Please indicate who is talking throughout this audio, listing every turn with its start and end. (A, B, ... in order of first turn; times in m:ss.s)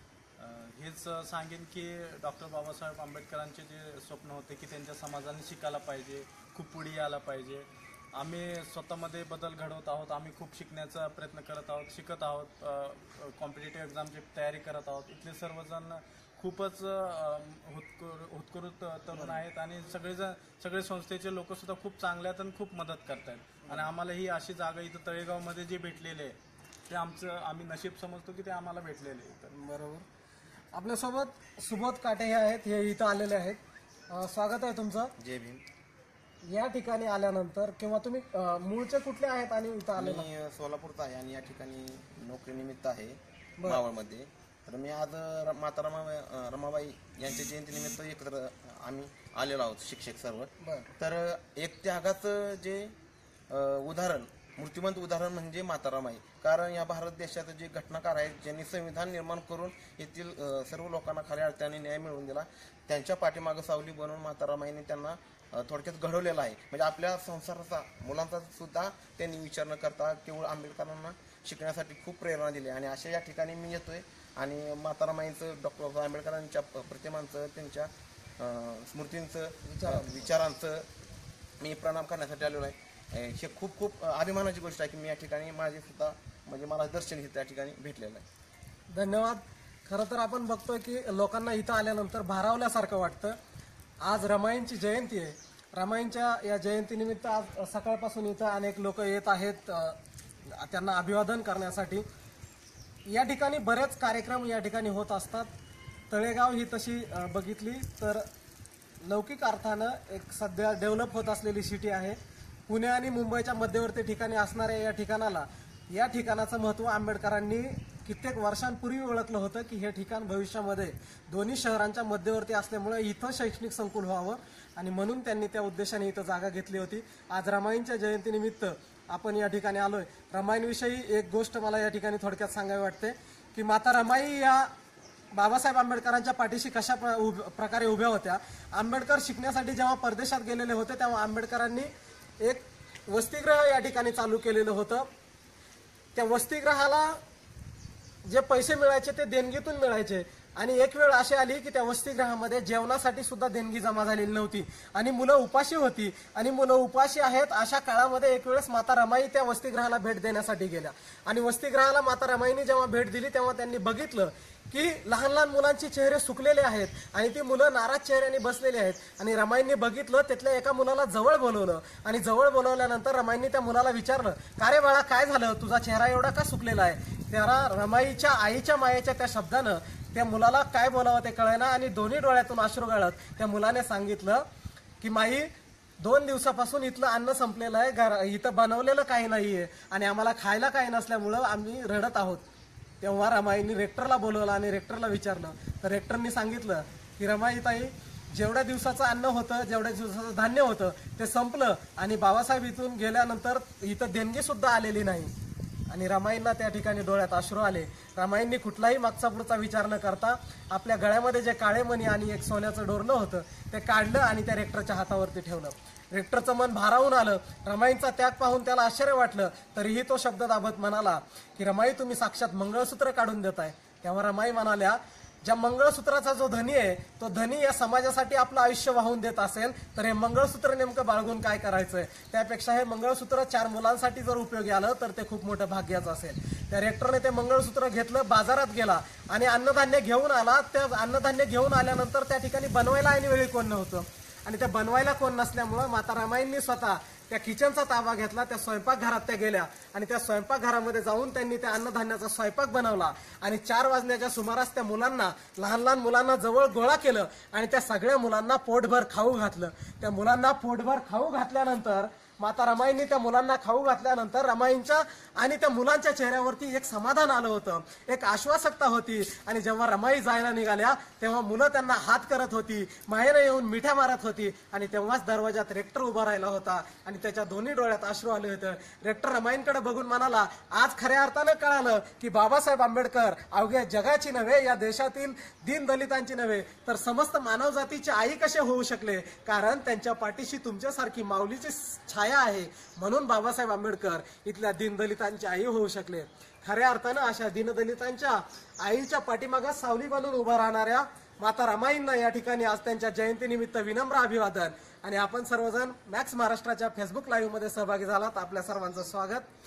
0:00.4-0:26.4 A
0:19.2-0:19.4 B
0:26.9-0:29.5 A
0:29.5-0:30.1 B
0:30.7-0:35.1 B
0:35.2-0:35.6 C
0:36.4-0:40.3 B
0:40.0-0:52.9 C
0:50.6-0:50.9 B
0:53.5-1:20.9 C
1:19.7-1:20.1 B
1:21.6-1:28.2 C
1:28.9-1:33.4 B
1:34.0-1:42.0 B
1:43.1-1:45.5 B
1:46.1-1:48.2 B
1:49.0-2:14.7 B
2:15.3-2:25.1 B
2:26.2-2:27.2 B
2:28.2-3:04.4 B
3:05.0-3:12.4 B
3:13.0-3:25.3 B
3:25.9-5:09.4 B